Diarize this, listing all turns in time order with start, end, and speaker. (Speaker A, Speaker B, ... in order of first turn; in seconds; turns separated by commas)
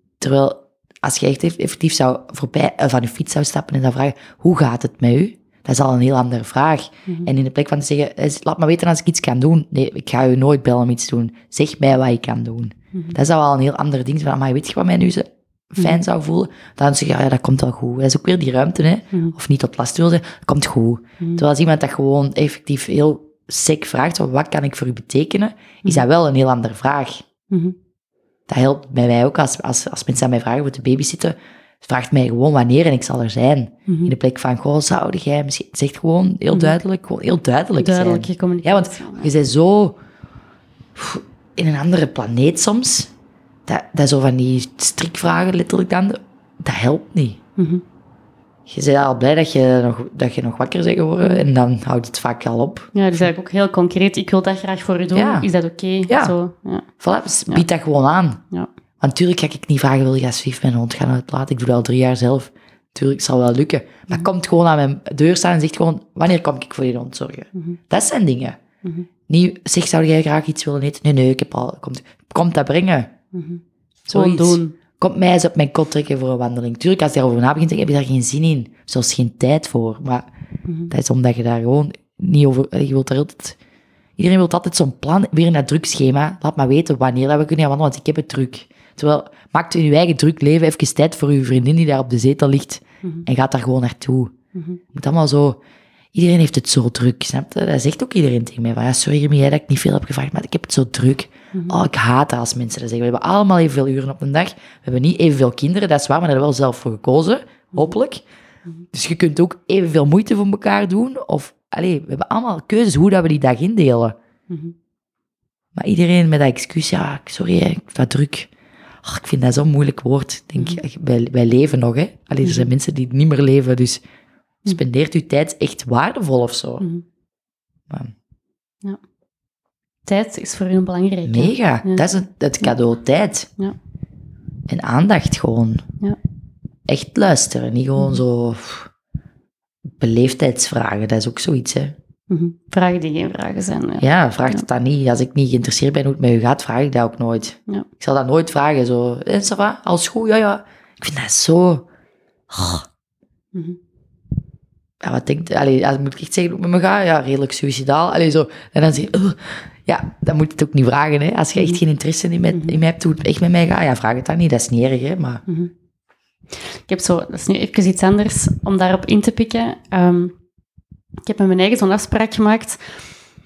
Speaker A: 0.2-27.2, Speaker B: 27.5-27.8, Speaker A: 28.5-40.0, Speaker B: 33.9-34.1, Speaker B: 37.8-39.3, Speaker A: 40.9-43.1, Speaker A: 43.7-47.4, Speaker B: 47.6-47.8, Speaker A: 48.7-53.3, Speaker B: 52.9-56.9, Speaker A: 55.1-55.5, Speaker A: 56.1-56.4, Speaker A: 57.0-58.4, Speaker A: 59.0-68.6, Speaker A: 69.3-73.1, Speaker B: 73.3-74.7, Speaker A: 74.1-80.3, Speaker A: 80.9-83.6, Speaker A: 84.2-94.3, Speaker B: 94.5-94.8, Speaker A: 94.9-95.6, Speaker A: 96.1-108.2, Speaker A: 108.9-114.2, Speaker B: 114.5-114.7, Speaker A: 115.7-118.5, Speaker A: 119.0-124.0, Speaker B: 122.4-122.7, Speaker A: 124.7-126.8, Speaker B: 130.1-132.0, Speaker A: 131.2-133.5, Speaker A: 134.7-135.8, Speaker A: 136.9-138.9, Speaker B: 138.0-138.2, Speaker A: 140.0-141.9, Speaker B: 142.3-144.6, Speaker A: 144.0-151.8, Speaker A: 152.5-152.9, Speaker A: 155.0-165.4, Speaker B: 162.5-162.8, Speaker B: 166.8-170.4, Speaker B: 171.2-172.8